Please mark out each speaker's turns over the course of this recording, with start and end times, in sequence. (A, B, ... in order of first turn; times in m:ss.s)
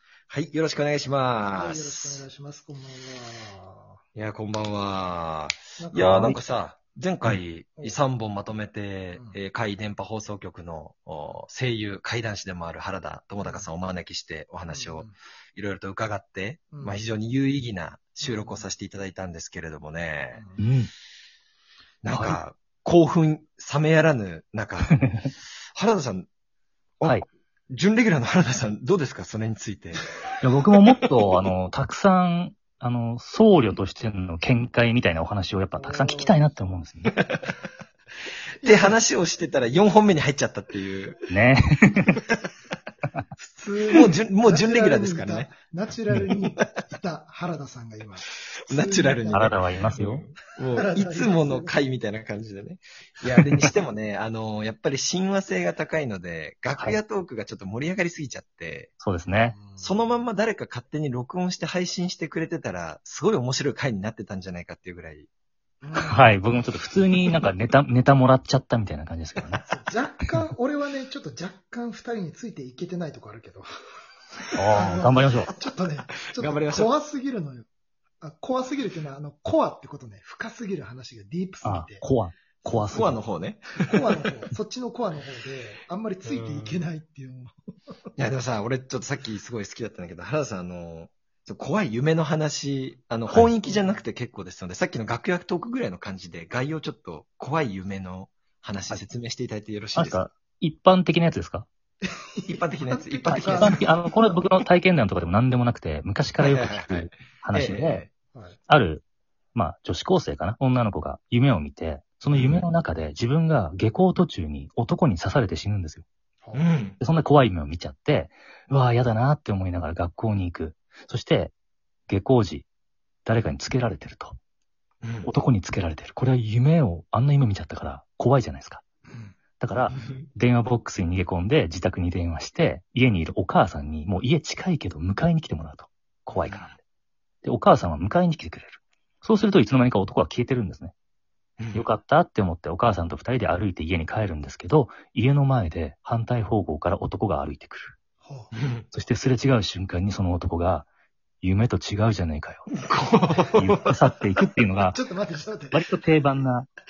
0:00.3-0:02.2 A
0:01.5-0:04.0 B
0:04.2-0:20.4 A
0:05.8-0:06.4 B
0:13.4-0:13.7 B
0:14.7-0:15.1 B
0:16.7-0:17.0 B
0:18.2-0:18.7 B
0:20.3-0:20.7 B
0:20.6-0:20.9 C
0:22.0-0:26.3 A
0:22.1-0:22.4 C
0:24.8-0:25.3 C
0:27.0-0:30.1 A
0:30.4-0:37.1 C
0:35.8-0:36.5 B
0:37.1-0:37.4 A
0:38.6-0:39.0 B
0:38.6-0:41.3 A
0:41.3-0:42.2 C
0:43.4-0:49.9 B
0:44.0-0:45.5 A
0:48.7-0:59.0 A
0:49.3-0:50.2 C
0:50.7-0:51.8 B
0:59.0-0:59.6 C
0:59.5-1:00.2 B
0:59.8-1:05.3 A
1:05.8-1:06.6 B
1:06.0-1:09.6 C
1:09.7-1:13.7 B
1:14.6-1:15.5 C
1:14.7-1:17.7 B
1:16.3-1:16.9 A
1:18.2-1:22.0 B
1:21.6-1:23.2 C
1:22.8-1:24.1 A
1:23.8-1:27.6 B
1:26.2-1:26.8 A
1:28.2-1:40.2 A
1:33.6-1:34.0 B
1:40.0-1:41.7 C
1:42.0-1:44.4 B
1:42.5-1:43.9 A
1:43.5-1:48.0 C
1:46.4-1:48.1 A
1:48.3-1:48.6 B
1:48.7-1:49.0 C
1:49.6-1:56.0 C
1:52.3-1:52.6 A
1:56.5-1:57.0 A
1:57.0-2:01.5 C
2:02.1-2:02.7 C
2:03.2-2:04.4 C
2:05.0-2:05.3 A
2:05.2-2:08.8 C
2:09.1-2:09.4 B
2:09.6-2:16.8 C
2:09.9-2:10.3 A
2:16.3-2:16.7 A
2:17.4-2:20.9 C
2:21.6-2:21.9 A
2:21.8-2:28.0 C
2:28.2-2:28.5 B
2:28.5-2:28.9 A
2:28.9-2:30.9 C
2:31.4-2:32.7 C
2:32.8-2:34.0 A
2:33.6-2:35.0 C
2:34.8-2:35.9 B
2:35.7-2:36.7 C